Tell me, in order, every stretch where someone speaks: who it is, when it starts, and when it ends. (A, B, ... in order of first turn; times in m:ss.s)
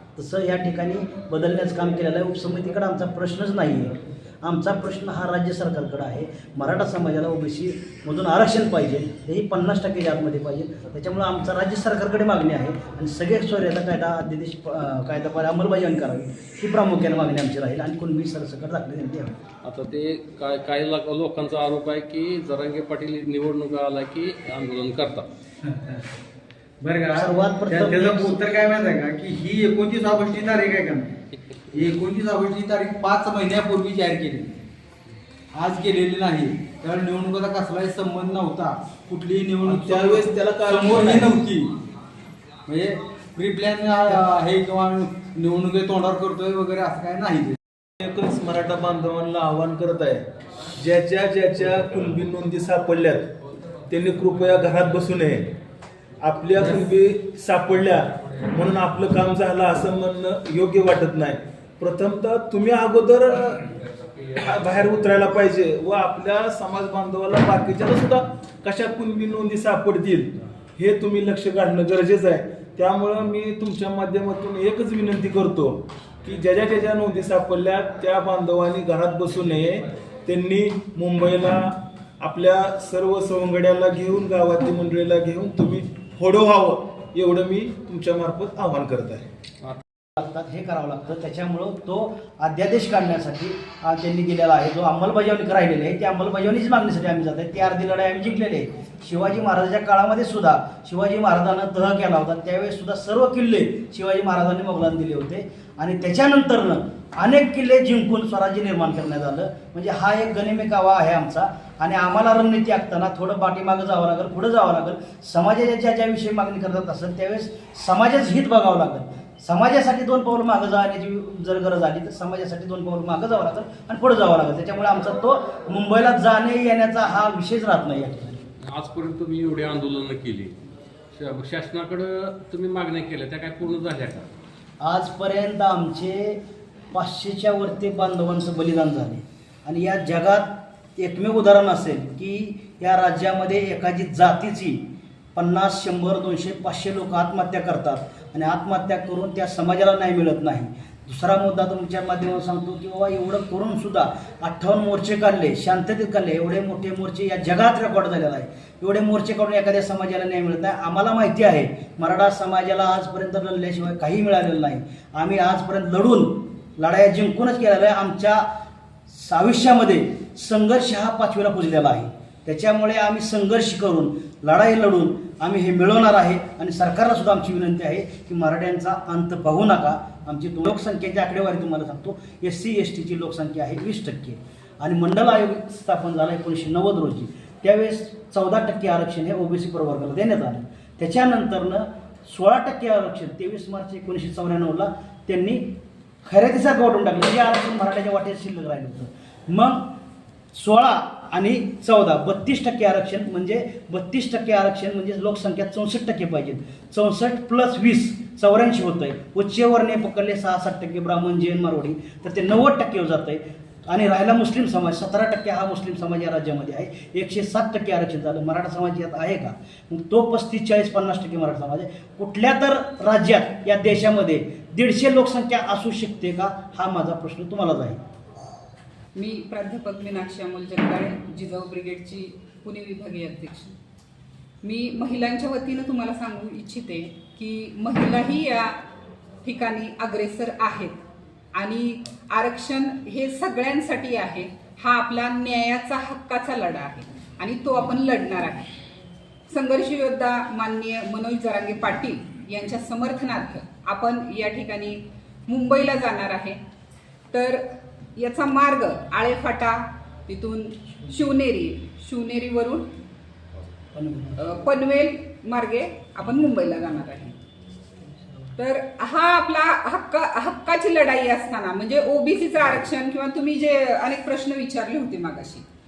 0:00.2-0:19.3 A
0:19.6-0:25.2 B
0:25.6-0:26.1 C
0:26.8-0:31.2 C
0:27.1-0:28.4 A
0:31.7-0:34.5 C
0:35.5-0:41.7 C
0:39.6-0:41.3 D
0:42.7-0:47.6 C
0:48.0-0:50.2 D
0:50.8-0:53.3 D
0:53.9-0:55.5 D
0:56.2-1:03.7 D
1:04.3-1:29.3 D
1:30.2-2:08.4 A
2:08.7-2:10.5 B
2:11.1-2:14.3 B
2:14.8-2:16.4 A
2:16.9-2:24.8 A
2:25.3-2:48.4 A
2:49.1-3:15.7 A
3:16.2-3:19.9 A
3:20.5-3:48.0 A
3:49.1-3:53.8 E
3:54.6-3:58.7 E
3:59.4-4:01.0 E
4:01.5-4:08.7 E
4:09.5-4:16.6 E
4:17.3-4:17.6 E
4:18.2-4:22.8 E
4:23.9-4:24.4 A
4:24.4-4:27.4 E
4:28.2-4:28.5 A
4:28.6-4:35.6 E